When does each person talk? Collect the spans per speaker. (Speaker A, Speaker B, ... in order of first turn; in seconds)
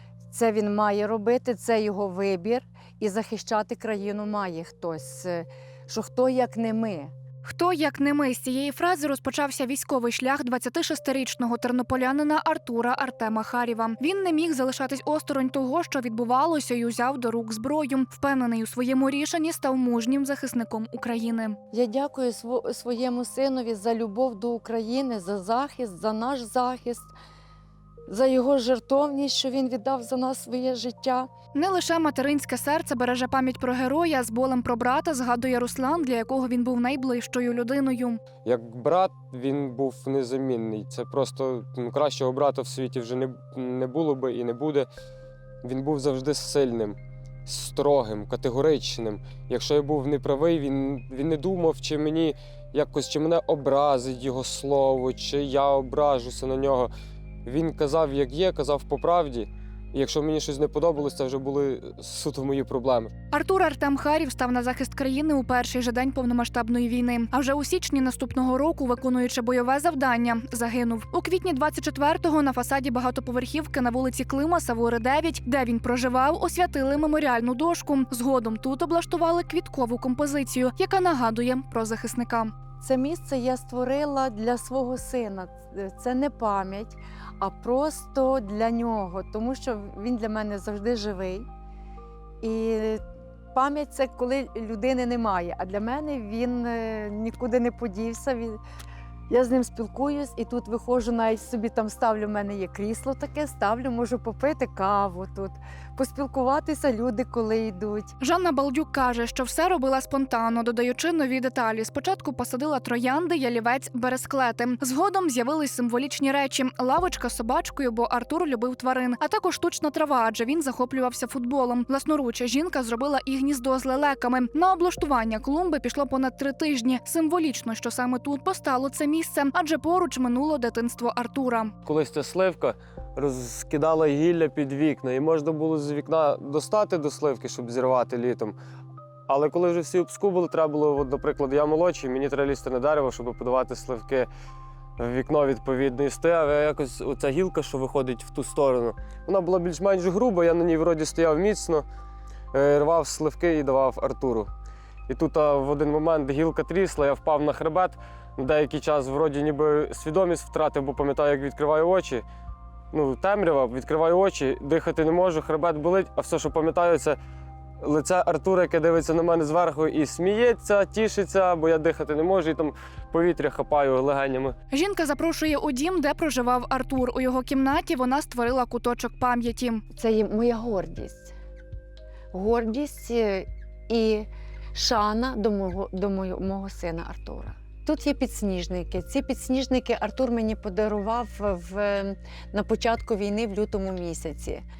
Speaker A: 0.3-7.1, 21.7-27.1, 28.1-31.3, 82.8-91.5, 92.4-93.0, 93.5-98.6, 99.3-108.1, 179.9-181.3, 182.3-194.6
Speaker B: 7.4-21.6, 31.5-38.2, 63.3-82.5, 108.2-131.8, 174.7-179.8
Speaker C: 38.5-44.9, 45.6-56.9, 57.5-63.1, 131.8-138.6, 139.3-144.3, 145.0-151.8, 152.5-154.5, 155.1-162.2, 162.9-167.2, 167.8-174.5